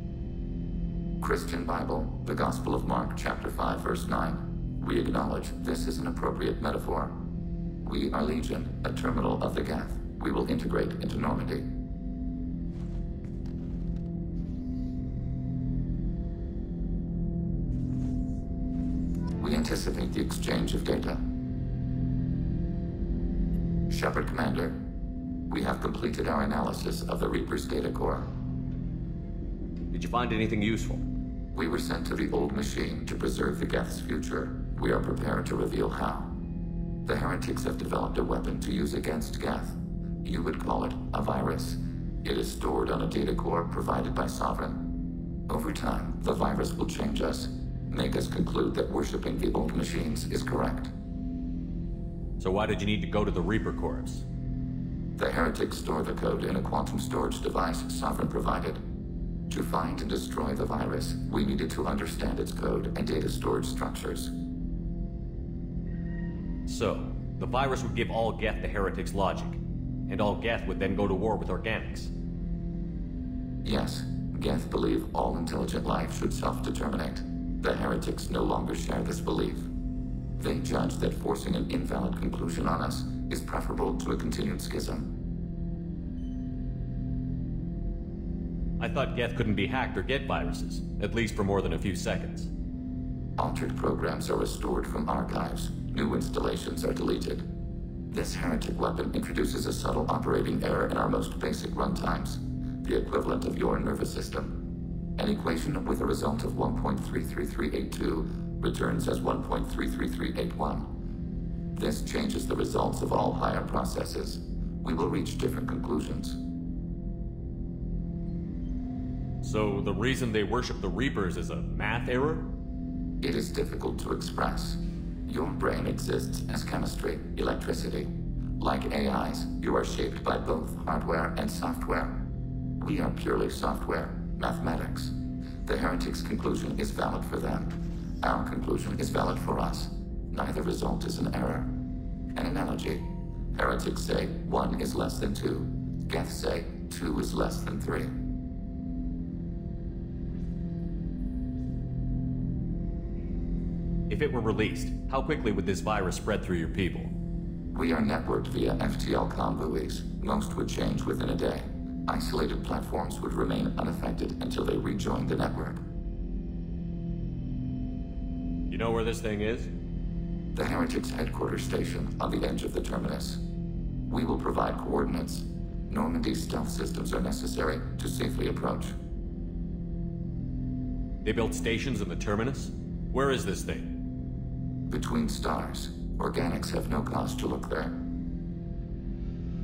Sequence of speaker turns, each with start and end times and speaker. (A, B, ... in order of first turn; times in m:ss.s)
0:01.2-0:07.2 A
0:07.8-0:11.7 A
0:19.4-0:21.2 A
0:23.9-0:24.8 A
0:25.5-0:28.3 A
0:29.9-0:31.0 B
0:31.5-0:36.3 A
0:37.0-0:44.8 A
0:45.5-0:50.9 A
0:52.4-0:54.2 B
0:55.2-0:58.8 A
0:59.5-1:04.3 A
1:06.7-1:12.1 B
1:13.6-1:19.7 A
1:20.4-1:25.1 A
1:28.8-1:32.5 B
1:33.4-1:37.4 A
1:38.1-1:44.6 A
1:45.2-1:50.9 A
1:51.7-1:56.4 A
1:59.4-2:02.5 B
2:03.2-2:12.2 A
2:12.8-2:15.1 A
2:15.6-2:21.7 A
2:22.3-2:28.1 A
2:34.1-2:37.1 B
2:37.7-2:45.8 A
2:48.7-2:49.7 B
2:50.5-2:53.4 A
2:54.1-2:59.0 A
3:01.2-3:03.9 B
3:04.9-3:08.0 A